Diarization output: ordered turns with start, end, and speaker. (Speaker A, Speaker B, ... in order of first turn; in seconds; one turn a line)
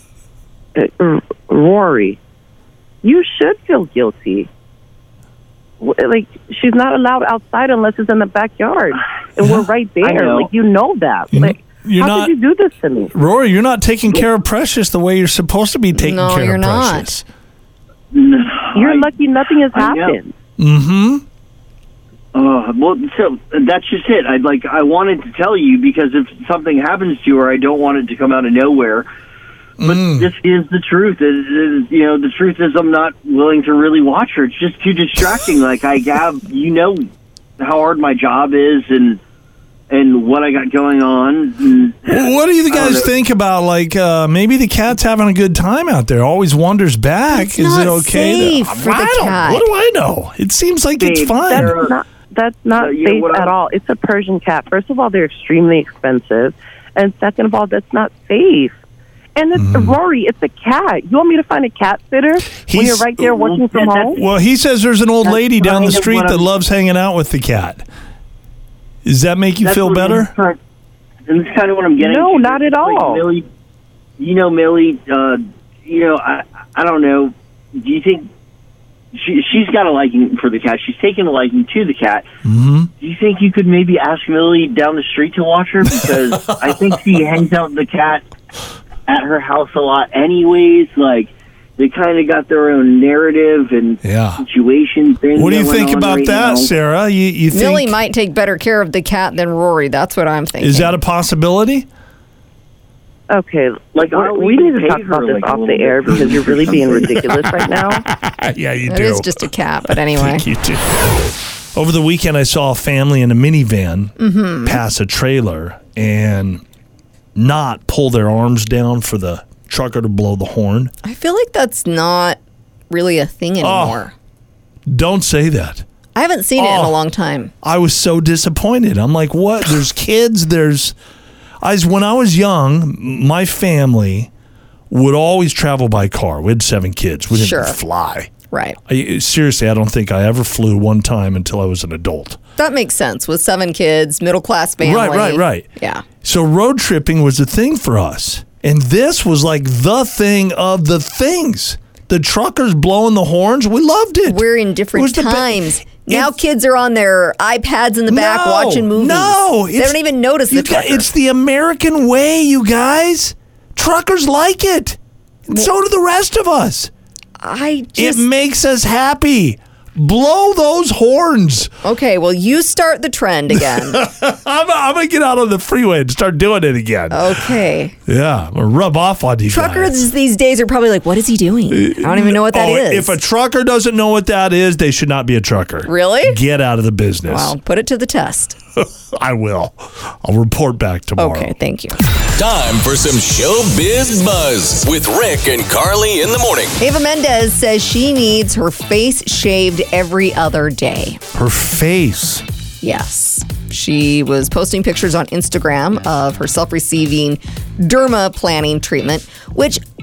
Speaker A: 0.8-2.2
Speaker A: 3.0-4.5
Speaker A: 5.8-13.1
Speaker B: 9.4-9.7
Speaker C: 10.0-10.5
Speaker B: 11.3-12.3
Speaker B: 13.1-17.2
Speaker D: 15.9-17.1
Speaker C: 18.1-19.1
Speaker A: 18.8-20.3
Speaker C: 19.7-20.2
Speaker B: 20.6-21.2
Speaker C: 22.3-29.1
Speaker B: 29.8-30.3
Speaker C: 29.8-37.1
Speaker C: 37.6-39.2
Speaker C: 39.9-43.1
Speaker B: 42.1-51.8
Speaker D: 47.3-49.7
Speaker C: 51.0-52.0
Speaker A: 51.5-58.8
Speaker C: 52.8-53.5
Speaker A: 59.4-64.2
Speaker B: 59.5-60.0
Speaker B: 62.7-63.1
Speaker C: 63.2-64.2
Speaker B: 64.1-67.9
Speaker C: 65.2-66.5
Speaker B: 69.0-70.3
Speaker C: 69.6-70.6
Speaker C: 71.3-73.5
Speaker A: 72.0-73.2
Speaker C: 74.2-78.3
Speaker C: 79.1-82.3
Speaker B: 82.4-82.9
Speaker C: 83.0-88.2
Speaker B: 86.5-86.8
Speaker C: 89.1-96.7
Speaker B: 94.0-94.4
Speaker B: 95.4-98.0
Speaker D: 97.5-101.0
Speaker B: 100.6-101.9
Speaker A: 103.3-108.1
Speaker C: 104.0-107.2
Speaker B: 106.8-114.1
Speaker D: 108.9-110.5
Speaker D: 114.2-114.8
Speaker B: 114.7-116.6
Speaker B: 117.3-120.9
Speaker D: 121.0-122.4
Speaker D: 122.9-124.1
Speaker B: 123.6-124.0
Speaker B: 124.9-125.8
Speaker D: 126.2-127.5
Speaker B: 126.6-127.0
Speaker B: 127.6-130.9
Speaker B: 131.6-134.3
Speaker B: 134.9-138.3
Speaker D: 137.3-137.8
Speaker D: 138.5-138.8
Speaker B: 138.9-142.4
Speaker D: 142.6-146.1
Speaker B: 144.8-145.7
Speaker B: 146.2-156.3
Speaker D: 154.3-161.1
Speaker B: 158.1-166.9
Speaker D: 167.4-168.3
Speaker B: 168.0-171.7
Speaker D: 171.8-174.0
Speaker B: 173.5-177.6
Speaker D: 177.1-178.0
Speaker B: 178.1-180.0
Speaker D: 179.5-183.2
Speaker B: 181.7-187.6
Speaker D: 185.9-186.4
Speaker D: 187.3-188.6
Speaker B: 188.8-191.5
Speaker D: 191.2-192.0
Speaker E: 192.3-196.8
Speaker D: 196.8-201.2
Speaker B: 201.3-202.4
Speaker D: 202.8-209.8